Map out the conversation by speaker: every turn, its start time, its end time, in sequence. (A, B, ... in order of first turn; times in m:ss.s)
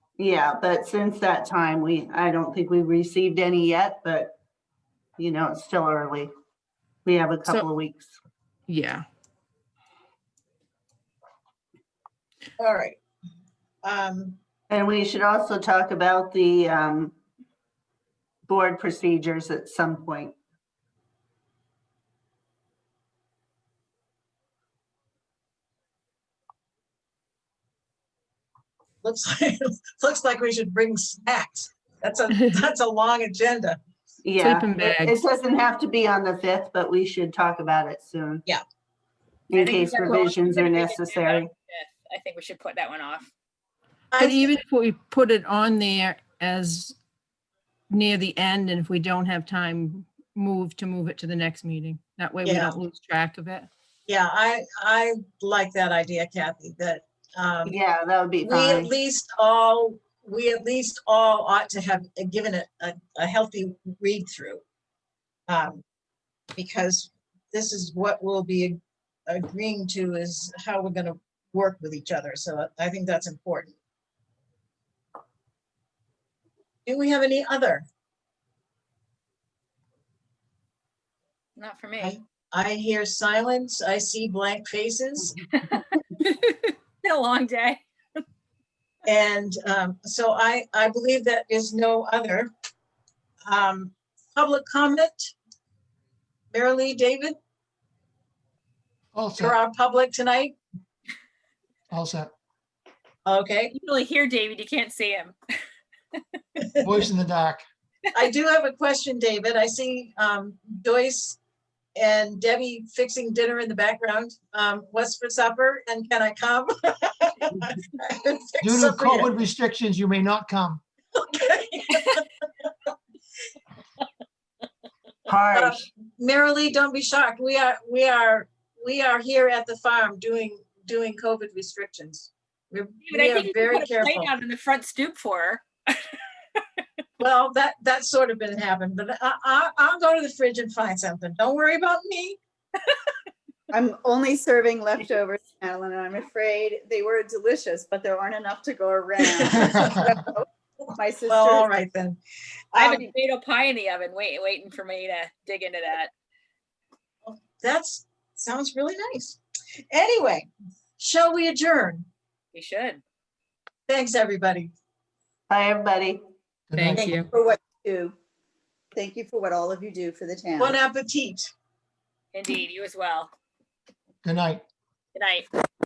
0:00.2-0:04.3 A
0:05.2-0:06.3 A
0:07.0-0:08.1 A
0:08.7-0:09.0 B
0:12.6-0:13.0 C
0:13.8-0:14.4 C
0:14.7-0:17.2 A
0:18.5-0:20.4 A
0:29.0-0:33.8 C
0:32.3-0:32.7 B
0:34.2-0:38.4 A
0:34.4-0:35.2 B
0:39.5-0:41.5 A
0:39.5-0:43.3 D
0:44.1-0:44.5 C
0:44.1-0:47.0 B
0:47.9-0:53.7 B
0:52.4-0:52.7 C
0:54.1-0:57.8 C
0:57.6-0:58.9 A
0:58.4-1:04.6 C
1:05.5-1:05.8 C
1:06.6-1:13.8 C
1:16.9-1:17.9 C
1:21.6-1:22.2 D
1:22.0-1:25.4 C
1:25.6-1:27.8 D
1:29.1-1:32.5 C
1:33.4-1:35.3 C
1:36.5-1:37.4 C
1:39.1-1:39.6 E
1:39.4-1:40.6 C
1:41.9-1:42.3 E
1:43.3-1:43.7 C
1:43.7-1:45.4 D
1:46.6-1:46.9 C
1:46.8-1:47.6 E
1:48.1-1:51.4 C
1:52.0-1:59.4 C
1:58.6-2:00.8 E
2:01.2-2:02.5 C
2:05.3-2:05.9 A
2:05.5-2:14.3 C
2:13.1-2:15.7 D
2:17.2-2:22.4 C
2:23.7-2:30.5 F
2:29.2-2:29.6 C
2:31.0-2:31.7 F
2:31.2-2:32.2 C
2:32.8-2:36.1 D
2:37.2-2:42.1 C
2:42.5-2:43.0 D
2:43.9-2:44.7 C
2:45.5-2:46.2 A
2:46.7-2:47.3 E
2:46.7-2:47.3 B
2:47.3-2:48.2 F
2:48.9-2:50.8 F
2:50.6-2:51.5 C
2:52.3-2:53.3 D
2:54.2-2:54.7 E
2:55.2-2:55.5 D